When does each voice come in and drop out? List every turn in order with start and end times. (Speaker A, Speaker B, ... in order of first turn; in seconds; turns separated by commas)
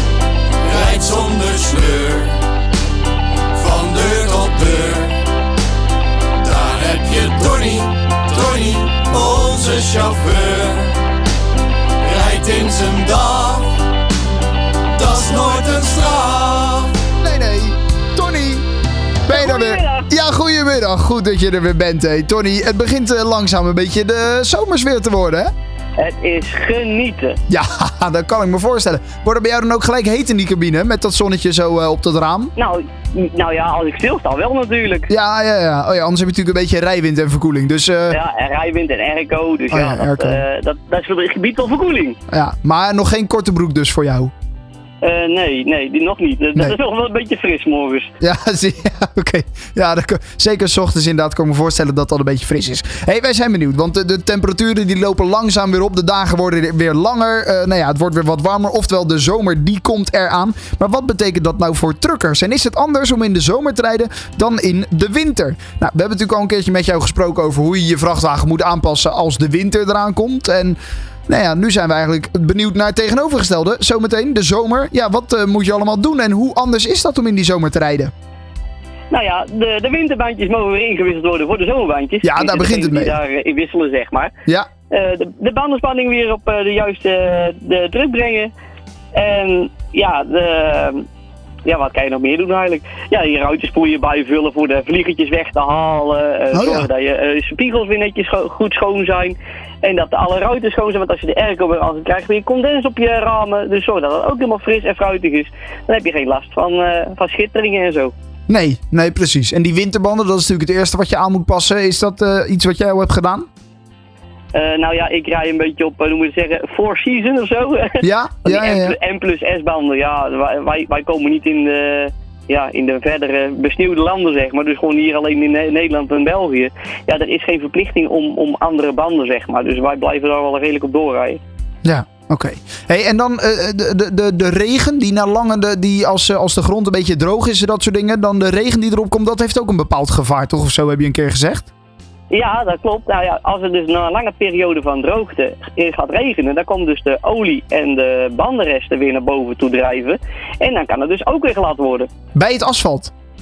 Speaker A: 0.6-2.4, Speaker A: 3.5-5.2, Speaker A: 6.4-11.0, Speaker A: 12.0-13.8, Speaker A: 14.9-17.0, Speaker B: 17.2-18.7, Speaker B: 19.2-25.5, Speaker C: 19.3-20.1, Speaker C: 26.0-27.4, Speaker B: 27.5-32.5, Speaker C: 32.6-35.1, Speaker B: 35.1-38.2, Speaker C: 38.1-42.2, Speaker B: 39.7-40.4, Speaker B: 42.3-44.3, Speaker C: 45.0-48.1, Speaker B: 48.2-70.8, Speaker B: 71.3-78.1, Speaker C: 79.1-84.3, Speaker B: 82.2-83.2, Speaker C: 84.9-88.5, Speaker C: 89.1-91.0, Speaker C: 91.7-108.1, Speaker B: 96.5-96.9, Speaker B: 108.5-113.5, Speaker C: 114.5-131.4, Speaker B: 118.0-119.0, Speaker B: 131.8-141.7, Speaker C: 142.3-152.1, Speaker B: 152.3-153.1